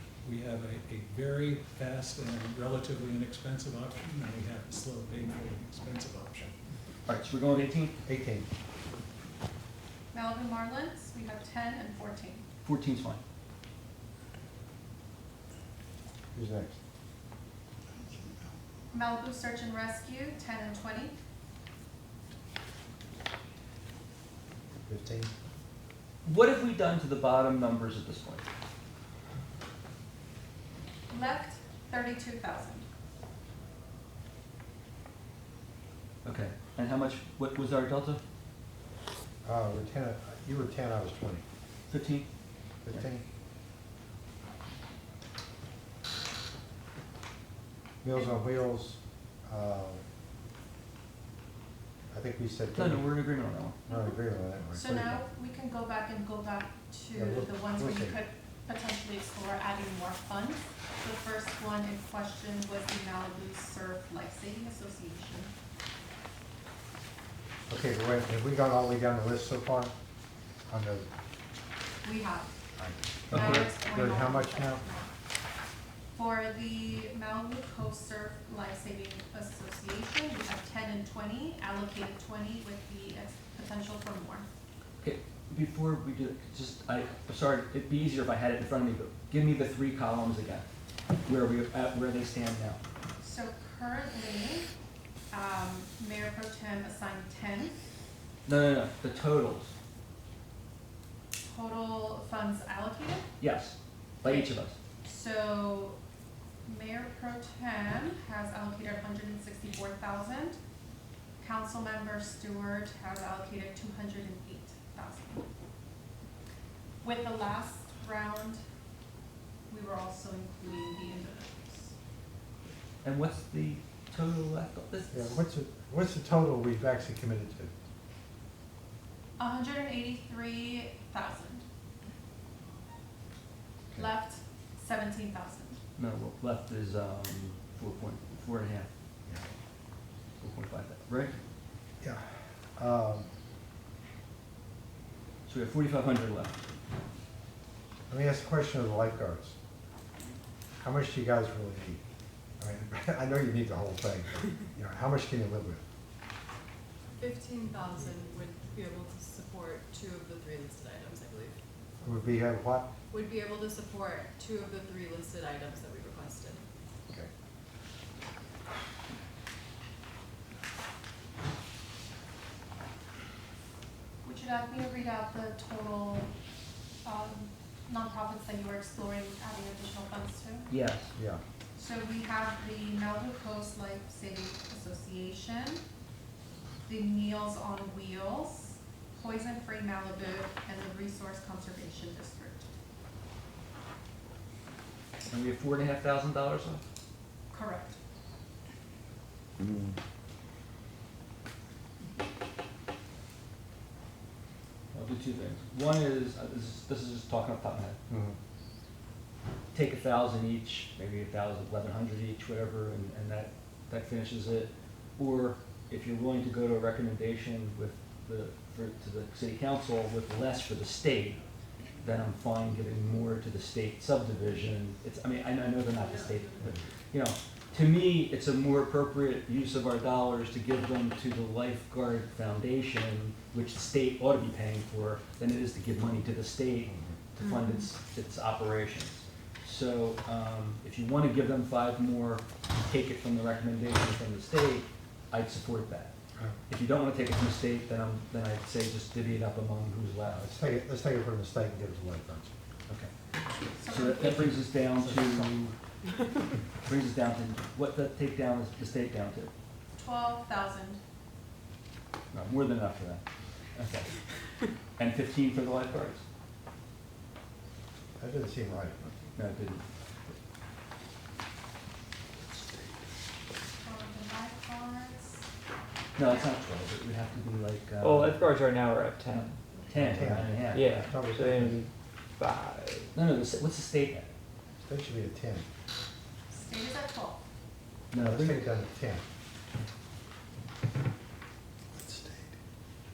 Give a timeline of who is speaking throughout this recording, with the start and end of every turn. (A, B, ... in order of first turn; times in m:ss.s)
0:00.2-0:06.6 A
0:07.1-0:08.0 B
0:08.1-0:08.5 C
0:10.1-0:12.5 D
0:12.6-0:13.2 B
0:16.3-0:16.8 C
0:18.9-0:21.2 D
0:24.9-0:25.3 C
0:26.2-0:28.4 B
0:31.1-0:32.9 D
0:36.2-0:38.2 B
0:39.4-0:41.4 C
0:41.9-0:42.3 B
0:42.8-0:43.2 C
0:48.0-0:50.0 C
0:48.1-0:48.4 D
0:52.1-0:53.1 C
0:52.8-0:53.8 B
0:53.9-0:55.2 C
0:54.7-1:05.5 D
0:57.2-0:58.2 C
1:07.7-1:09.9 C
1:10.7-1:11.1 C
1:12.0-1:12.5 D
1:12.8-1:14.8 C
1:13.3-1:13.7 B
1:13.3-1:15.1 D
1:16.2-1:24.5 D
1:25.0-1:30.6 B
1:31.2-1:32.8 B
1:33.2-1:34.7 D
1:35.3-1:37.8 D
1:38.5-1:39.7 B
1:41.5-1:43.3 D
1:43.4-1:44.8 B
1:44.2-1:44.5 D
1:45.0-1:46.0 D
1:46.6-1:50.6 D
1:51.4-1:55.4 D
1:57.0-1:58.6 D
1:59.7-2:01.9 D
2:03.0-2:05.4 B
2:05.1-2:07.7 C
2:09.4-2:11.6 D
2:14.0-2:15.8 D
2:16.0-2:18.9 B
2:20.4-2:21.4 B
2:22.0-2:23.3 C
2:25.5-2:26.6 B
2:28.1-2:29.6 C
2:30.8-2:32.0 C
2:32.6-2:35.8 C
2:37.2-2:41.6 E
2:42.0-2:42.9 C
2:43.1-2:46.6 E
2:54.2-2:56.3 D
2:57.0-3:00.7 D
3:00.7-3:01.1 B
3:01.2-3:01.4 C
3:01.8-3:05.8 D
3:06.9-3:12.7 D
3:15.3-3:16.8 B
3:17.5-3:18.0 D
3:24.9-3:28.0 B
3:28.1-3:28.4 C
3:29.7-3:41.4 B
3:42.0-4:06.1 B
4:06.7-4:10.5 B
4:10.3-4:12.5 C
4:13.8-4:14.5 D
4:13.9-4:15.7 B
4:15.0-4:15.8 C
4:16.8-4:19.5 B
4:20.0-4:21.0 D
4:22.3-4:23.2 B
4:23.8-4:24.2 B
4:25.0-4:26.2 B
4:28.2-4:29.0 C
4:29.4-4:29.8 B
4:33.8-4:35.5 D
4:36.2-4:38.5 B
4:36.3-4:36.5 D
4:38.0-4:39.6 F
4:39.9-4:40.9 B
4:39.9-4:41.8 C
4:40.7-4:41.9 F
4:42.4-4:43.1 F
4:43.1-4:44.3 B
4:44.8-4:45.7 C
4:46.5-4:47.4 D
4:48.1-4:48.7 B
4:48.2-4:49.2 C
4:52.0-4:52.5 C